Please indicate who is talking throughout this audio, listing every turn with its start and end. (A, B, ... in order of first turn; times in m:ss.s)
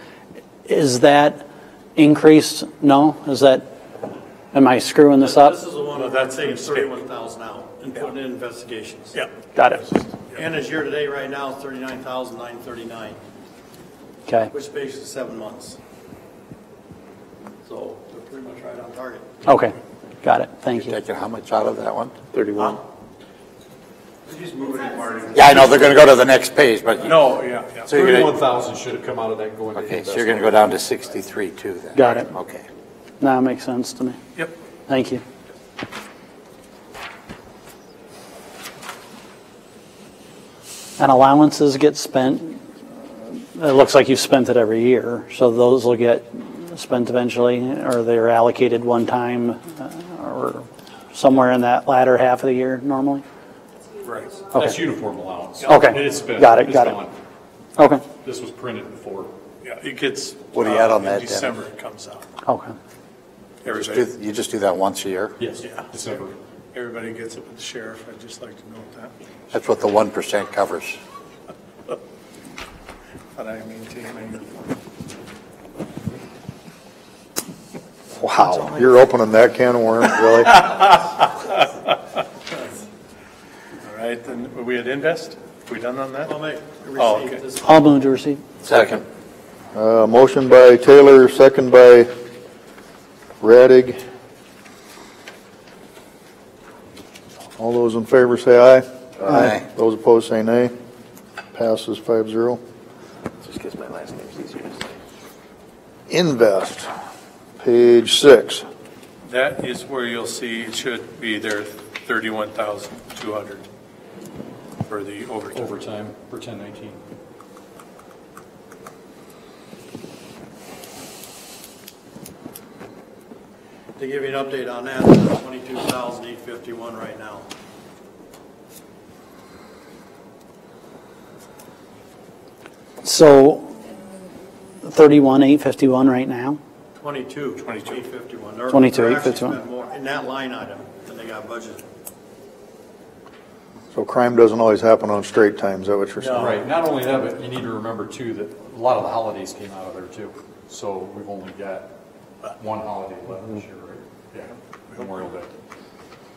0:00.6-0:03.6 A
0:04.5-0:05.6 A
0:05.2-0:09.2 B
0:05.9-0:07.0 C
0:09.1-0:10.5 C
0:09.5-0:09.8 A
0:10.3-0:13.2 B
0:14.5-0:15.8 B
0:17.6-0:19.4 B
0:19.4-0:21.0 A
0:20.7-0:22.1 D
0:22.3-0:22.8 E
0:24.3-0:25.7 C
0:25.3-0:28.4 D
0:27.0-0:28.0 C
0:27.8-0:30.7 F
0:29.7-0:32.6 D
0:31.9-0:32.3 A
0:33.2-0:34.2 A
0:34.9-0:35.2 A
0:41.0-0:42.6 A
0:43.4-0:53.2 A
0:54.0-0:54.5 C
0:54.5-0:54.8 A
0:54.5-0:57.1 F
0:55.6-0:57.0 A
0:57.8-0:58.0 A
0:58.1-0:59.3 F
0:59.6-1:02.2 C
1:00.5-1:01.6 D
1:02.4-1:02.8 A
1:03.6-1:04.1 C
1:03.7-1:05.4 D
1:05.4-1:06.3 F
1:05.6-1:06.1 C
1:06.7-1:09.1 C
1:09.5-1:11.0 D
1:13.4-1:14.5 C
1:18.2-1:20.8 G
1:20.6-1:21.0 C
1:23.8-1:26.4 C
1:26.2-1:27.9 B
1:27.0-1:27.4 C
1:27.6-1:28.4 A
1:28.6-1:29.0 D
1:29.7-1:32.1 G
1:33.4-1:34.0 G
1:37.6-1:40.7 G
1:41.5-1:42.6 G
1:43.4-1:44.9 E
1:46.1-1:46.9 G
1:47.6-1:48.6 G
1:49.2-1:53.6 C
1:54.8-1:55.7 C
1:55.5-1:57.0 F
2:04.0-2:07.5 B
2:13.0-2:13.8 A
2:14.8-2:16.6 A
2:17.0-2:21.8 B
2:17.6-2:18.0 C
2:18.7-2:19.6 A
2:23.9-2:26.5 G
2:26.2-2:26.6 B
2:26.3-2:35.5 F